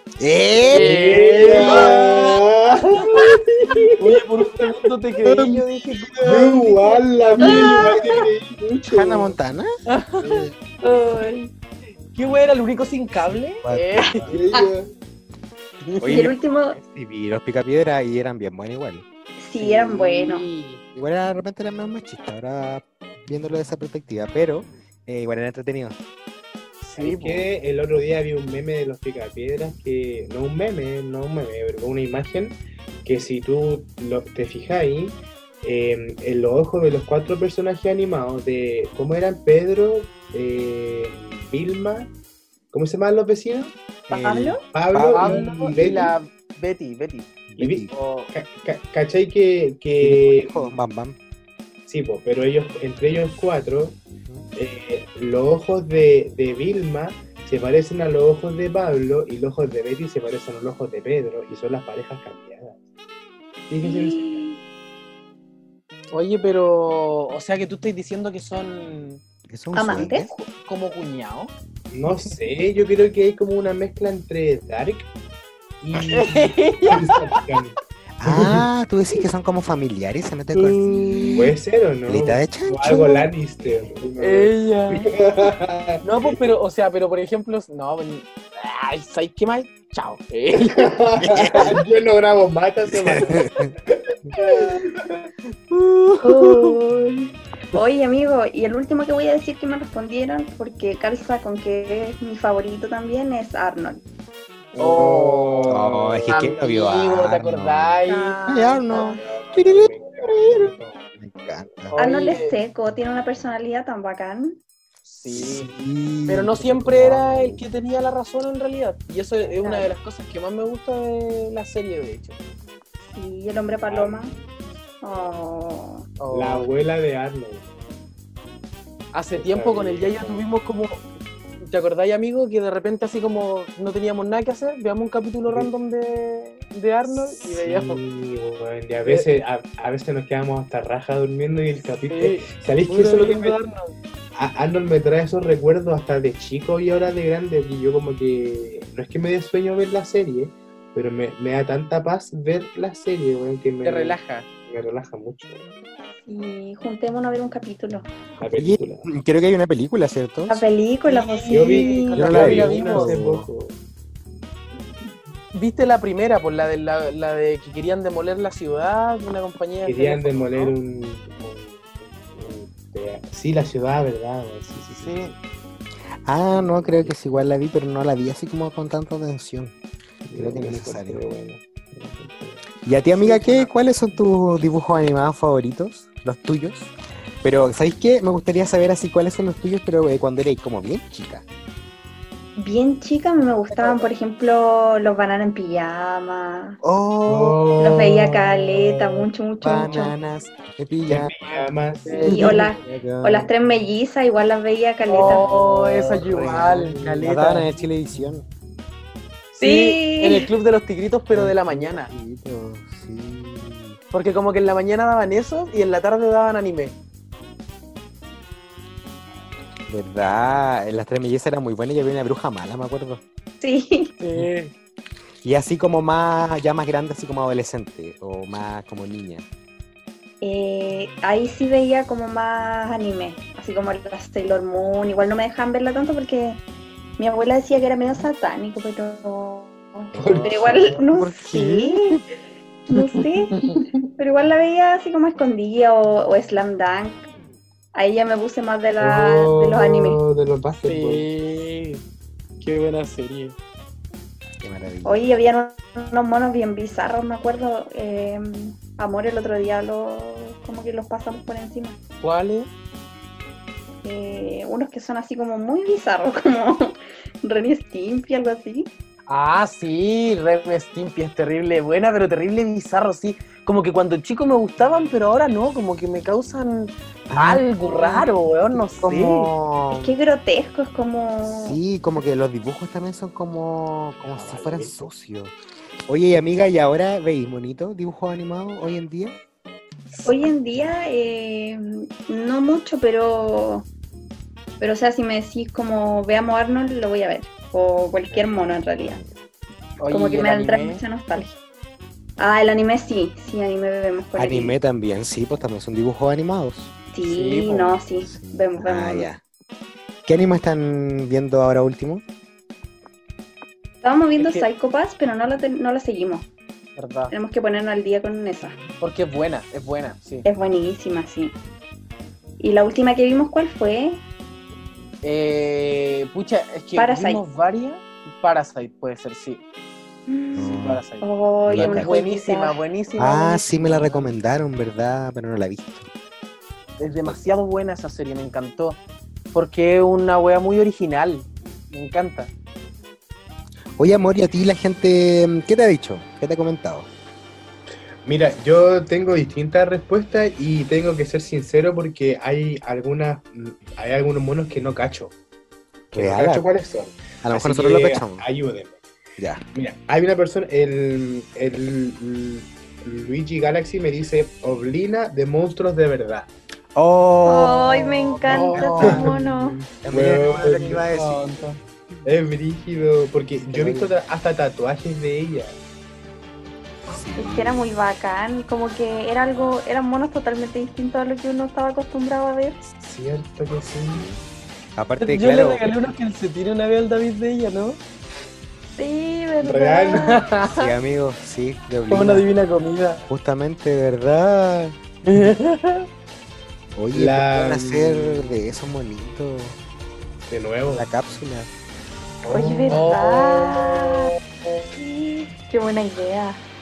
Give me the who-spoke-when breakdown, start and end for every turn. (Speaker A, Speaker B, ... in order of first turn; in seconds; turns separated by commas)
Speaker A: 0.2-2.3, Speaker B: 0.7-3.9, Speaker C: 0.7-2.3, Speaker C: 4.0-7.8, Speaker B: 5.3-5.5, Speaker B: 6.2-9.3, Speaker A: 7.4-7.7, Speaker D: 7.4-8.0, Speaker A: 8.9-10.5, Speaker C: 9.9-11.4, Speaker D: 10.8-11.5, Speaker C: 12.1-14.3, Speaker A: 13.2-14.4, Speaker B: 14.2-14.9, Speaker C: 15.8-16.3, Speaker A: 16.0-19.0, Speaker D: 16.1-16.8, Speaker D: 19.4-20.5, Speaker C: 19.6-20.8, Speaker A: 20.9-26.0, Speaker C: 26.8-27.5, Speaker B: 27.0-42.1, Speaker B: 42.7-46.1, Speaker D: 44.1-44.6, Speaker A: 44.9-45.5, Speaker C: 45.1-47.4, Speaker A: 47.5-47.9, Speaker B: 47.6-50.7, Speaker C: 47.9-48.3, Speaker A: 50.0-51.2, Speaker B: 51.9-54.0, Speaker B: 54.5-62.8, Speaker B: 63.7-64.4, Speaker D: 63.8-64.6, Speaker C: 66.1-69.2, Speaker A: 69.5-70.3, Speaker D: 69.7-70.3, Speaker C: 70.3-71.5, Speaker B: 71.9-75.1, Speaker B: 75.8-78.6, Speaker C: 76.1-77.4, Speaker A: 78.2-81.3, Speaker B: 80.5-86.4, Speaker A: 82.1-83.7, Speaker C: 84.2-85.1, Speaker C: 86.0-91.0, Speaker B: 90.6-95.3, Speaker A: 91.2-91.8, Speaker A: 92.9-93.7, Speaker A: 95.7-96.8, Speaker D: 96.2-104.0, Speaker B: 104.7-106.3, Speaker C: 104.8-105.8, Speaker A: 105.7-111.9, Speaker C: 106.3-109.0, Speaker D: 108.0-109.2, Speaker B: 109.1-111.1, Speaker C: 111.9-112.6, Speaker D: 112.0-114.6, Speaker C: 115.0-115.7, Speaker A: 115.3-117.6, Speaker C: 116.3-122.4, Speaker D: 119.6-119.9, Speaker D: 123.1-124.3, Speaker B: 123.8-124.5, Speaker D: 125.0-126.1, Speaker C: 126.2-126.7, Speaker B: 126.3-127.7, Speaker C: 129.1-131.1, Speaker B: 129.3-130.4, Speaker C: 131.6-138.0, Speaker B: 135.5-135.7, Speaker B: 137.1-143.6, Speaker C: 142.1-143.9, Speaker B: 144.3-155.6, Speaker C: 153.8-154.5, Speaker D: 156.2-158.1, Speaker B: 158.4-159.1, Speaker A: 158.5-160.6, Speaker D: 160.5-162.3, Speaker C: 161.1-163.2, Speaker B: 161.5-163.8, Speaker A: 162.1-163.5, Speaker C: 165.5-170.8, Speaker B: 169.8-175.3, Speaker C: 174.9-175.3, Speaker A: 176.3-179.7, Speaker B: 176.5-177.2, Speaker B: 180.2-182.6, Speaker A: 180.3-181.2, Speaker A: 182.8-186.9, Speaker C: 183.2-183.7, Speaker A: 187.4-191.4, Speaker D: 192.6-196.8, Speaker A: 196.8-197.6, Speaker B: 197.3-199.3, Speaker D: 197.8-200.1, Speaker A: 199.6-201.3, Speaker B: 201.1-202.6, Speaker C: 201.5-202.6, Speaker A: 202.1-203.5, Speaker D: 202.2-205.4, Speaker C: 205.1-207.8, Speaker A: 205.4-208.4, Speaker B: 206.3-206.6, Speaker C: 209.5-212.1, Speaker D: 209.6-210.5, Speaker A: 211.3-214.0, Speaker C: 214.1-216.9, Speaker A: 219.9-223.2, Speaker D: 223.6-224.1, Speaker C: 224.2-224.7, Speaker A: 225.4-229.4, Speaker D: 230.4-236.6, Speaker D: 237.2-242.2, Speaker A: 240.1-242.2, Speaker B: 240.2-240.9, Speaker D: 242.9-243.6, Speaker D: 244.2-247.3, Speaker D: 247.9-250.2, Speaker B: 249.0-251.2, Speaker C: 250.8-252.0, Speaker C: 252.6-253.6, Speaker A: 254.6-255.4, Speaker D: 255.0-262.0, Speaker C: 262.2-262.7, Speaker D: 264.0-268.9, Speaker C: 269.3-279.5, Speaker A: 277.3-280.1, Speaker D: 279.9-281.8, Speaker A: 281.4-285.5, Speaker B: 284.2-285.1, Speaker A: 286.1-289.3, Speaker D: 290.2-293.9, Speaker D: 294.8-299.2, Speaker A: 298.9-299.3, Speaker C: 300.0-301.0, Speaker D: 300.1-301.6, Speaker D: 302.4-304.8, Speaker A: 304.4-306.9, Speaker D: 307.1-309.3, Speaker C: 307.2-308.0, Speaker A: 308.2-309.4, Speaker A: 310.2-312.2, Speaker D: 314.0-316.5, Speaker C: 314.4-314.6, Speaker C: 316.9-317.3, Speaker D: 317.3-318.8, Speaker C: 319.0-320.5, Speaker D: 320.4-321.6, Speaker D: 322.6-324.2, Speaker C: 325.2-329.6, Speaker D: 326.9-327.4, Speaker D: 330.3-332.8, Speaker A: 330.6-331.0, Speaker C: 330.7-334.3, Speaker A: 331.6-332.1, Speaker A: 333.2-336.1, Speaker C: 337.0-339.0, Speaker C: 339.5-342.5, Speaker A: 344.0-347.1, Speaker B: 348.2-355.3, Speaker A: 356.1-356.6, Speaker B: 356.1-359.0, Speaker A: 357.4-358.4, Speaker B: 359.7-366.5, Speaker A: 366.9-369.4, Speaker D: 367.4-369.8, Speaker C: 368.4-369.2, Speaker B: 369.0-369.3, Speaker A: 370.0-371.6, Speaker B: 370.1-371.1, Speaker C: 371.1-371.8, Speaker B: 372.2-375.8, Speaker A: 373.6-374.1, Speaker A: 377.0-377.9, Speaker D: 377.4-382.8, Speaker B: 382.9-384.2, Speaker A: 383.9-384.4, Speaker A: 384.9-386.0, Speaker C: 385.2-388.0, Speaker D: 389.0-390.4, Speaker B: 389.6-390.4, Speaker C: 390.1-390.9, Speaker A: 390.6-392.5, Speaker C: 392.1-393.2, Speaker A: 393.2-394.9, Speaker C: 395.2-396.1, Speaker A: 396.9-399.8, Speaker B: 397.1-398.5, Speaker B: 400.5-401.1, Speaker A: 400.9-401.7, Speaker B: 402.4-403.1, Speaker D: 402.5-404.3, Speaker C: 402.9-404.8, Speaker D: 404.9-406.6